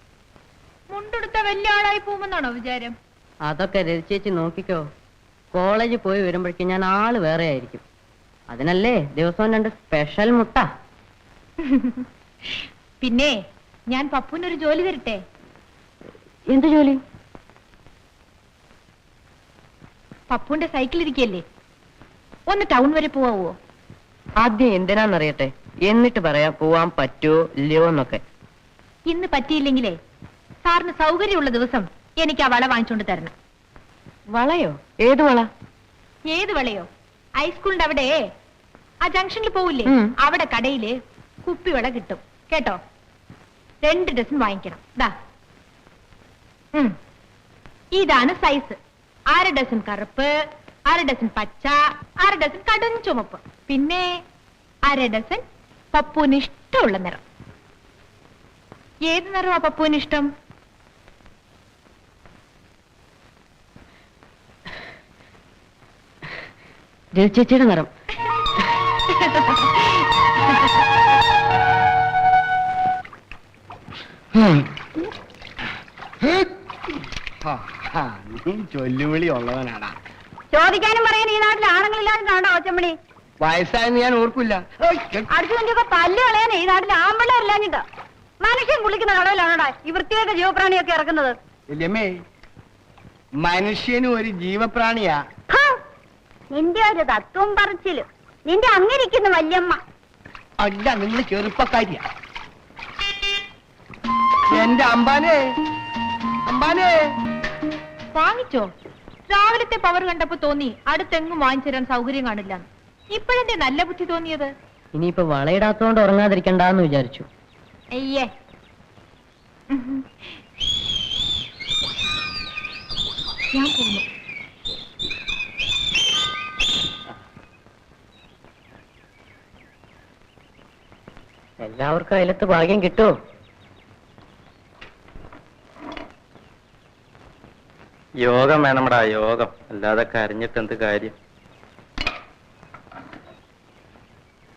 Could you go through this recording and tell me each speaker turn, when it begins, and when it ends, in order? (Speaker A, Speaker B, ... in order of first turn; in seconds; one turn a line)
Speaker A: 0.9-3.0
Speaker B: 3.5-4.8
Speaker B: 5.5-7.8
Speaker B: 8.5-10.7
Speaker A: 11.6-13.4
Speaker A: 13.9-15.2
Speaker B: 16.5-17.0
Speaker A: 20.3-21.4
Speaker A: 22.5-23.6
Speaker B: 24.4-28.2
Speaker A: 29.1-30.0
Speaker A: 30.6-33.3
Speaker B: 34.3-35.5
Speaker A: 36.3-36.9
Speaker A: 37.4-38.2
Speaker A: 39.0-42.8
Speaker B: 39.9-40.1
Speaker A: 43.8-45.1
Speaker A: 47.9-48.8
Speaker A: 49.3-54.2
Speaker A: 54.8-57.2
Speaker A: 59.1-60.3
Speaker B: 67.1-67.9
Speaker A: 69.3-69.8
Speaker C: 77.4-79.9
Speaker D: 80.5-83.0
Speaker C: 83.4-85.3
Speaker D: 85.3-87.8
Speaker D: 88.4-91.4
Speaker C: 91.7-92.1
Speaker C: 93.4-95.2
Speaker D: 95.5-95.8
Speaker D: 96.5-99.8
Speaker C: 100.6-102.0
Speaker C: 104.5-105.4
Speaker C: 106.5-107.0
Speaker A: 108.1-108.7
Speaker A: 109.3-114.5
Speaker B: 115.0-117.3
Speaker A: 117.9-118.3
Speaker A: 119.7-120.1
Speaker A: 123.5-124.1
Speaker B: 131.6-133.1
Speaker E: 138.2-141.2